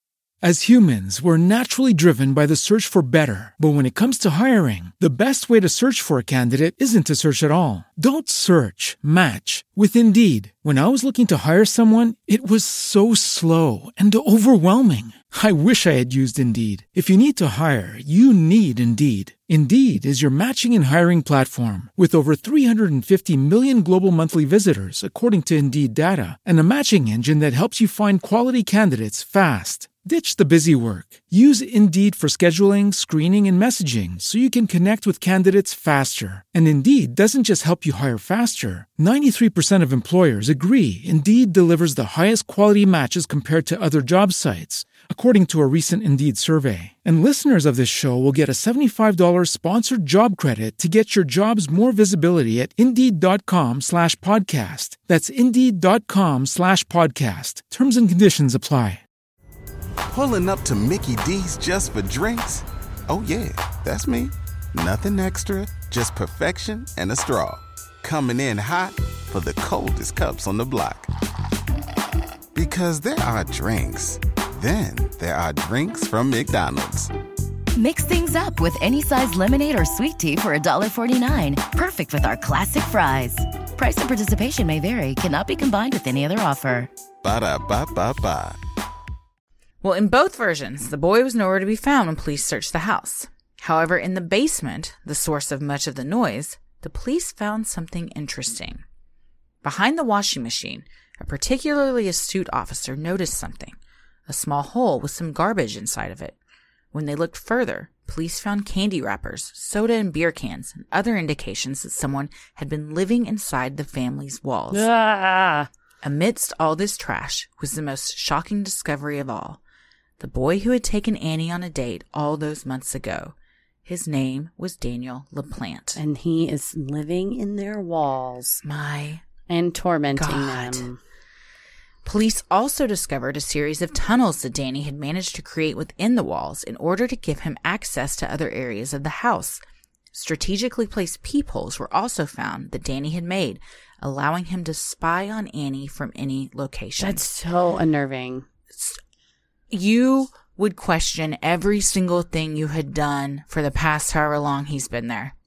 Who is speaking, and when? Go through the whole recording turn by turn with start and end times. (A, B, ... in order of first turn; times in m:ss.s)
0:00.4-0:59.0 A
1:00.1-1:11.1 B
1:12.5-1:17.1 B
1:17.8-1:26.9 C
1:27.2-1:28.6 B
1:29.8-1:38.8 D
1:39.6-1:43.7 D
1:44.3-1:46.3 D
1:46.9-1:54.8 D
1:54.7-1:55.7 E
1:56.0-1:59.6 D
2:00.2-2:03.3 D
2:03.8-2:06.0 D
2:06.0-2:08.6 E
2:08.6-2:09.2 D
2:09.5-2:11.0 E
2:10.2-2:10.8 D
2:12.0-2:19.6 D
2:20.1-2:27.2 D
2:27.0-2:28.4 E
2:29.7-2:35.3 D